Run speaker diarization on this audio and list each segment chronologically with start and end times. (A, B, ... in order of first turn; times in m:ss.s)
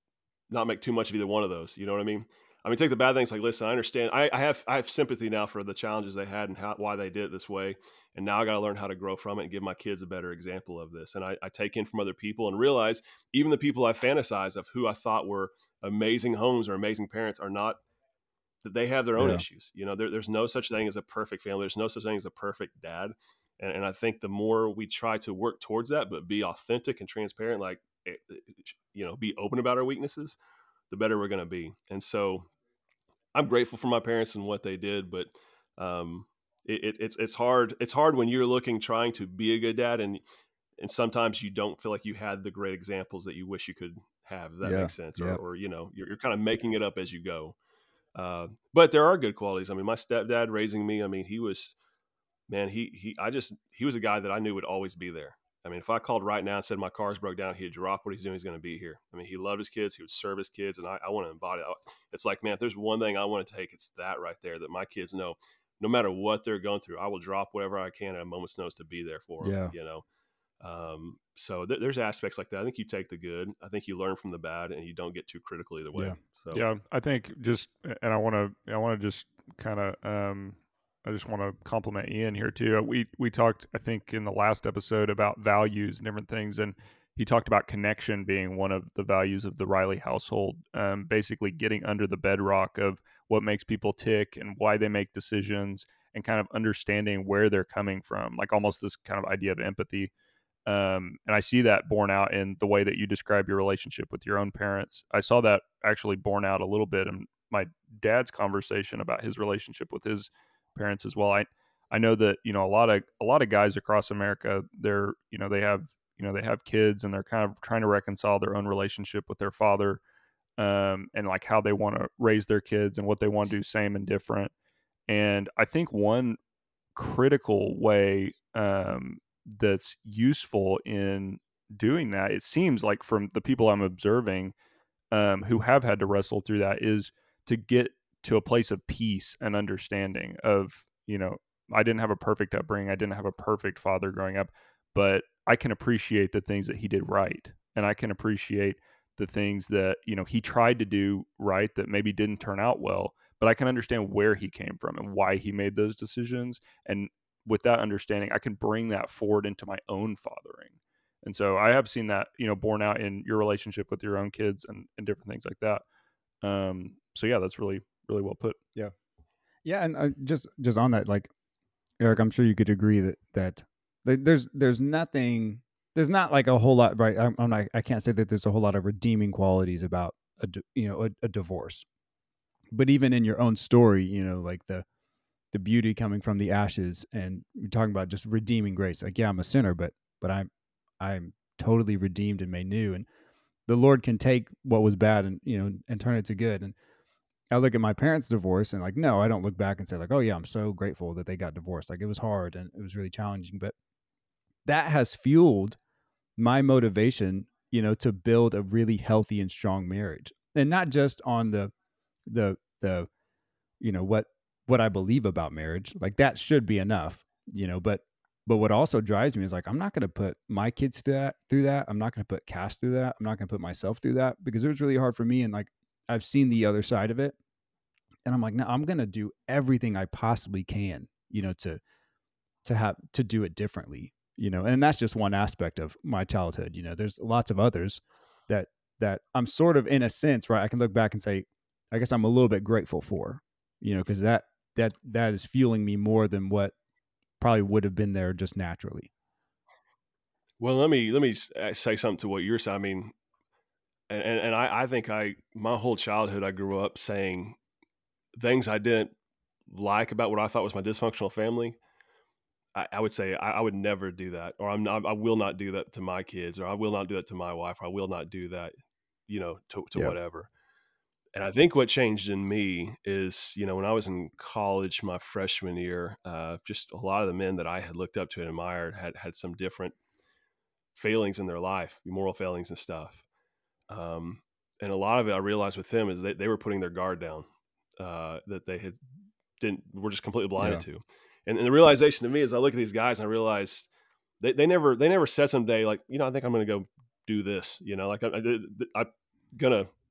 0:00.5-0:17.8 A
0:18.6-0:30.4 A
0:19.2-0:19.4 B
0:30.9-0:32.5 A
0:33.3-0:40.2 A
0:40.8-0:47.6 A
0:44.6-0:45.4 B
0:48.1-0:51.8 A
0:52.5-1:10.0 A
1:09.4-1:09.7 B
1:10.6-1:16.6 A
1:16.5-1:40.1 C
1:40.6-2:00.0 C
2:00.6-2:04.5 C
2:05.1-2:06.4 C
2:06.9-2:14.5 C
2:15.1-2:45.8 C
2:46.4-2:48.6 C
2:49.6-2:51.3 B
2:52.0-3:01.8 B
3:02.7-3:04.8 B
3:05.5-3:10.5 B
3:11.0-3:13.0 B
3:13.7-3:16.7 B
3:17.5-3:23.7 B
3:24.6-3:25.8 B
3:26.4-3:31.7 B
3:32.3-3:33.1 B
3:33.8-3:47.4 B
3:48.2-3:51.8 B
3:52.6-4:06.7 B
4:07.4-4:09.1 B
4:10.6-4:13.1 A
4:14.1-4:17.6 A
4:18.4-4:19.1 A
4:19.7-4:21.8 A
4:22.7-4:28.7 A
4:29.3-4:30.5 A
4:31.3-4:40.0 A
4:41.0-4:43.2 A
4:43.9-4:47.5 A
4:48.0-4:49.0 A
4:49.6-4:53.9 A
4:50.6-4:50.8 B
4:54.4-4:59.9 A